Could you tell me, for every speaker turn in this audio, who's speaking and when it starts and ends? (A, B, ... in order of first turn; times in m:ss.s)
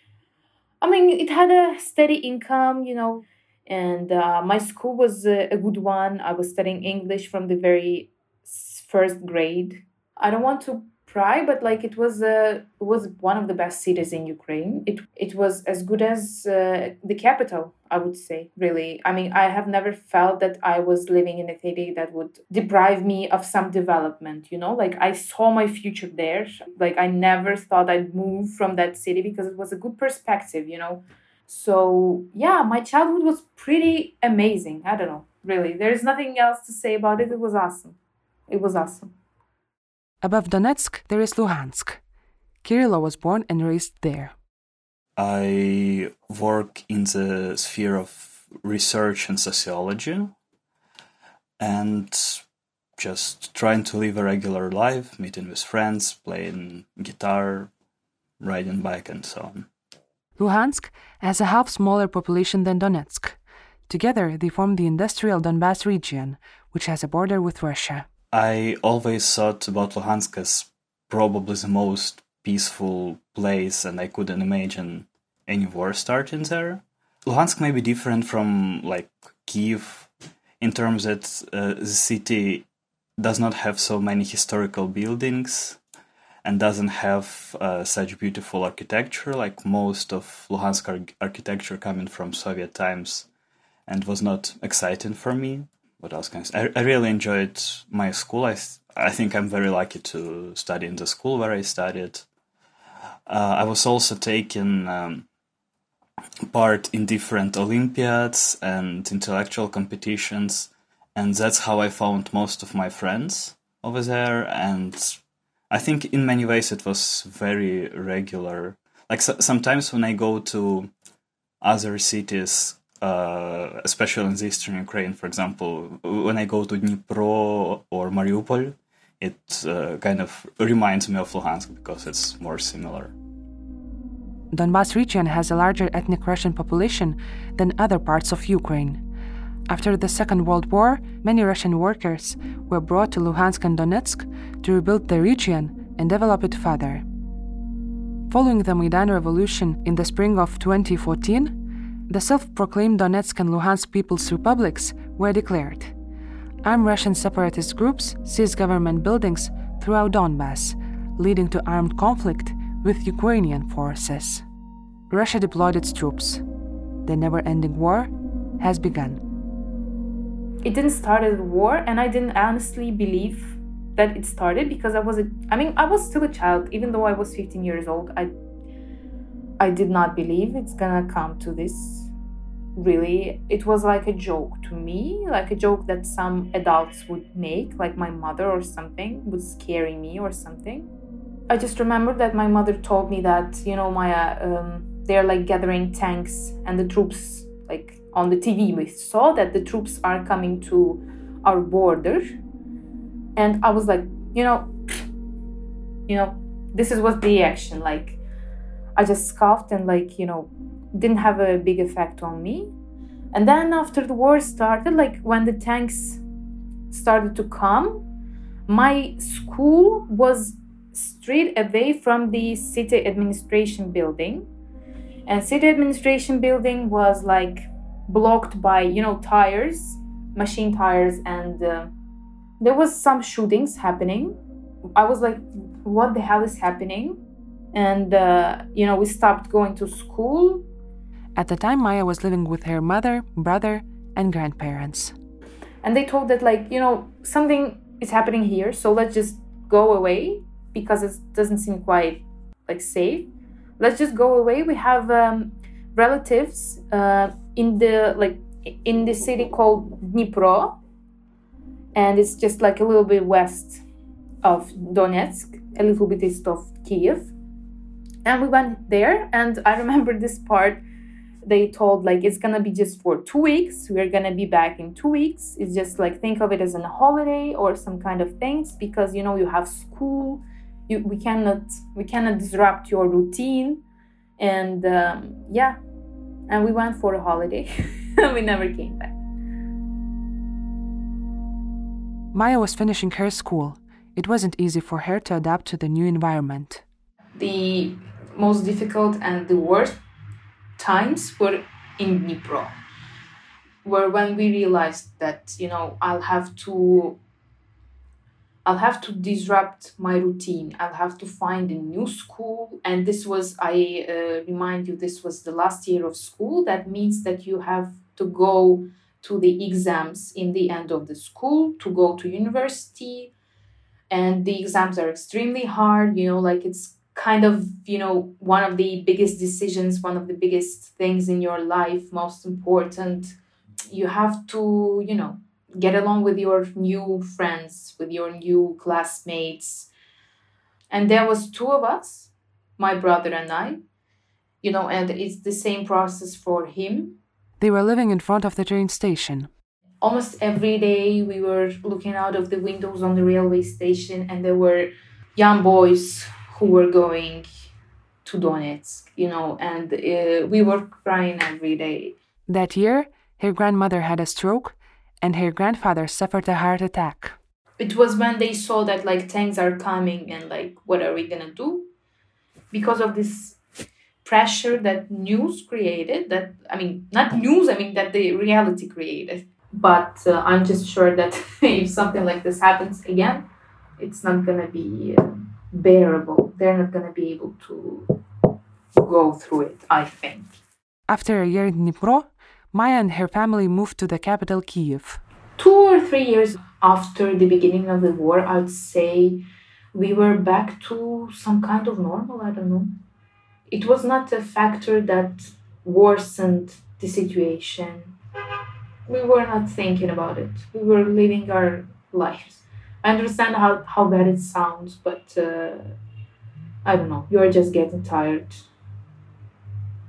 0:00.8-0:38.0 A
0:38.5-0:39.1 A
0:40.2-0:42.0 B
0:42.6-0:44.3 B
0:45.2-0:50.3 C
0:51.6-0:52.4 C
0:53.0-0:57.7 C
0:58.4-0:59.7 C
1:00.4-1:08.1 B
1:08.3-1:20.1 C
1:20.6-1:22.7 C
1:23.2-1:25.8 C
1:26.4-1:33.3 C
1:33.9-1:42.3 C
1:43.3-1:45.3 C
1:46.5-2:00.9 C
2:01.6-2:13.1 C
2:14.5-2:19.0 B
2:19.7-2:27.0 B
2:28.3-2:31.6 B
2:32.1-2:35.9 B
2:36.6-2:44.4 B
2:45.1-2:46.4 B
2:47.0-2:49.2 B
2:50.6-2:58.3 A
2:59.6-3:02.1 A
3:02.8-3:10.9 A
3:11.5-3:22.2 A
3:23.4-3:24.7 A
3:26.1-3:28.2 A
3:29.0-3:32.7 A
3:33.3-3:36.2 A
3:36.9-3:38.0 A
3:38.7-3:44.5 A
3:45.3-3:51.9 A
3:52.6-3:54.4 A
3:55.0-3:57.2 A
3:57.7-4:00.6 A
4:01.4-4:05.2 B
4:05.8-4:20.8 A
4:22.0-4:23.8 A
4:24.4-4:27.3 A
4:28.2-4:30.8 A
4:31.4-4:43.8 A
4:44.4-4:45.8 A
4:46.5-4:49.2 A
4:52.3-4:56.8 B
4:57.4-5:00.0 A
5:00.8-5:02.8 A
5:03.8-5:07.2 A
5:08.6-5:23.3 A
5:24.1-5:33.4 A
5:33.9-5:39.9 A
5:40.9-5:43.8 A
5:44.6-5:47.2 A
5:47.6-5:49.5 B
5:50.0-5:57.5 A
5:58.2-6:02.2 A
6:02.5-6:07.4 B
6:07.8-6:11.9 A
6:12.7-6:13.6 A
6:14.2-6:23.5 A
6:24.0-6:28.2 A
6:29.0-6:30.6 A
6:31.1-6:35.2 B
6:35.6-6:42.9 A
6:43.7-6:48.1 A
6:49.1-6:56.0 A
6:56.8-6:58.6 A